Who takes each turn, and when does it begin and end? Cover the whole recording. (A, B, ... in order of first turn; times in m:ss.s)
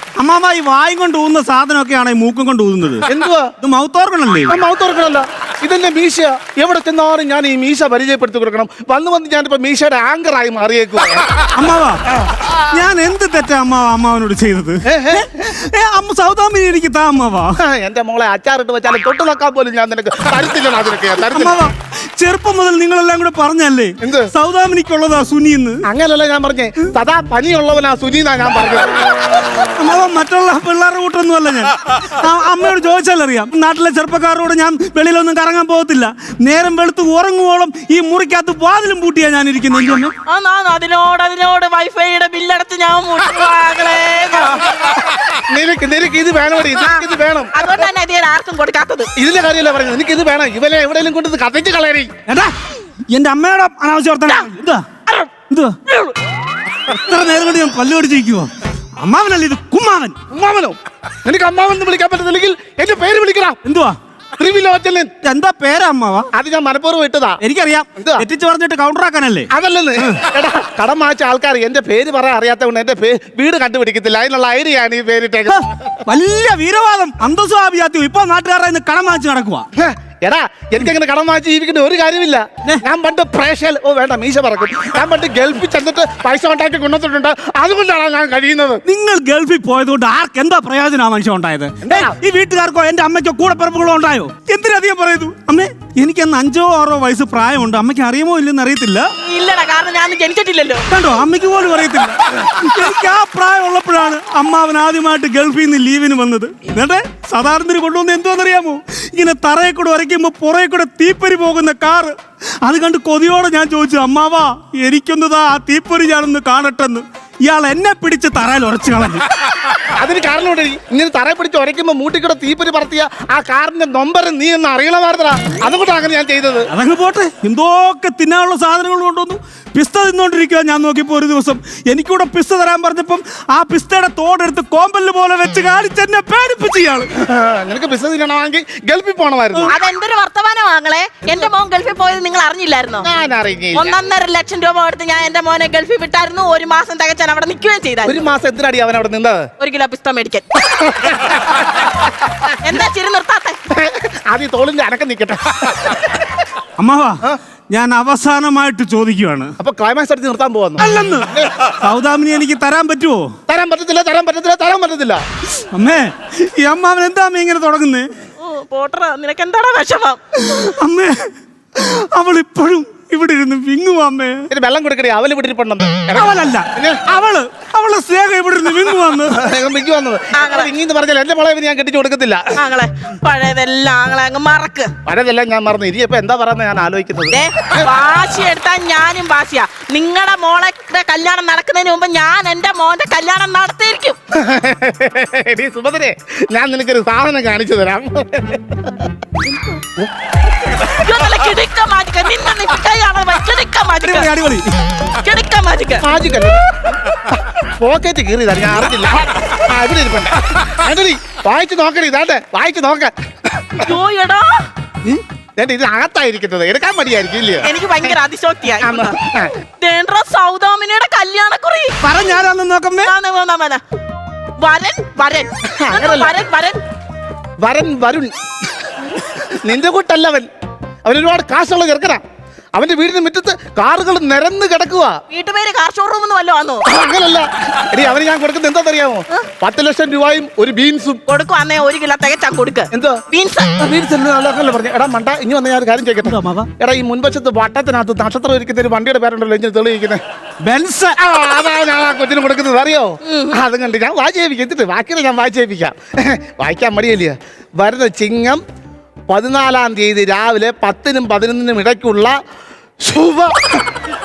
0:00.2-0:03.1 A
0:03.1-0:03.5 B
0:03.6-0:04.5 A
0:04.5-0:11.3 B
0:11.5-0:12.0 A
0:12.6-0:17.6 A
0:14.8-0:15.5 B
0:17.6-0:21.6 B
0:21.3-0:25.8 A
0:24.0-0:24.3 B
0:25.8-0:29.0 B
0:29.6-0:40.1 A
0:40.3-0:45.1 C
0:45.4-0:47.5 B
0:46.8-0:49.1 C
0:49.2-0:52.1 B
0:52.3-0:52.5 A
0:53.1-0:54.8 A
0:55.5-0:55.9 A
0:56.9-1:00.2 A
1:00.3-1:03.6 B
1:03.6-1:04.0 A
1:04.4-1:05.1 B
1:05.2-1:06.3 A
1:06.3-1:07.4 B
1:07.4-1:09.5 A
1:08.0-1:08.2 B
1:09.5-1:15.6 B
1:15.5-1:19.7 A
1:19.8-1:28.8 B
1:28.8-1:39.1 A
1:31.8-1:32.2 B
1:39.2-1:40.8 C
1:40.9-1:59.2 A
1:59.8-2:06.7 B
2:06.7-2:17.1 A
2:17.1-2:19.7 B
2:19.7-2:23.1 C
2:23.0-2:23.9 B
2:23.7-2:28.2 C
2:28.0-2:29.4 B
2:29.6-2:30.4 C
2:30.7-2:32.0 B
2:32.6-2:33.6 C
2:33.7-2:36.4 B
2:36.8-2:39.5 A
2:39.6-2:41.5 B
2:40.8-2:43.3 A
2:43.5-2:45.2 B
2:45.7-2:48.1 A
2:48.4-2:50.2 C
2:50.4-2:54.5 A
2:54.5-2:57.0 B
2:56.1-2:59.4 A
2:59.3-3:02.5 B
3:00.3-3:00.7 C
3:02.6-3:04.9 C
3:05.0-3:07.4 B
3:07.3-3:14.2 C
3:14.3-3:19.1 B
3:20.8-3:24.3 C
3:24.0-3:24.7 A
3:25.1-3:26.0 C
3:26.0-3:26.6 B
3:27.2-3:33.9 B
3:33.8-3:34.6 C
3:35.6-3:37.7 B
3:37.6-3:39.1 C
3:38.8-3:39.5 B
3:39.8-3:41.9 C
3:42.0-3:43.1 A
3:43.0-3:43.8 C
3:44.6-3:46.8 C
3:45.8-3:46.4 B
3:47.6-3:48.3 B
3:48.9-3:50.5 B
3:51.0-3:52.2 B
3:52.7-3:55.2 B
3:55.3-3:56.8 C
3:56.9-4:01.2 B
4:01.3-4:03.8 C
4:02.9-4:03.2 B
4:03.8-4:10.2 B
4:06.2-4:06.7 A
4:10.6-4:11.2 A
4:11.2-4:18.6 B
4:13.2-4:13.6 C
4:19.3-4:22.3 B
4:23.0-4:23.6 B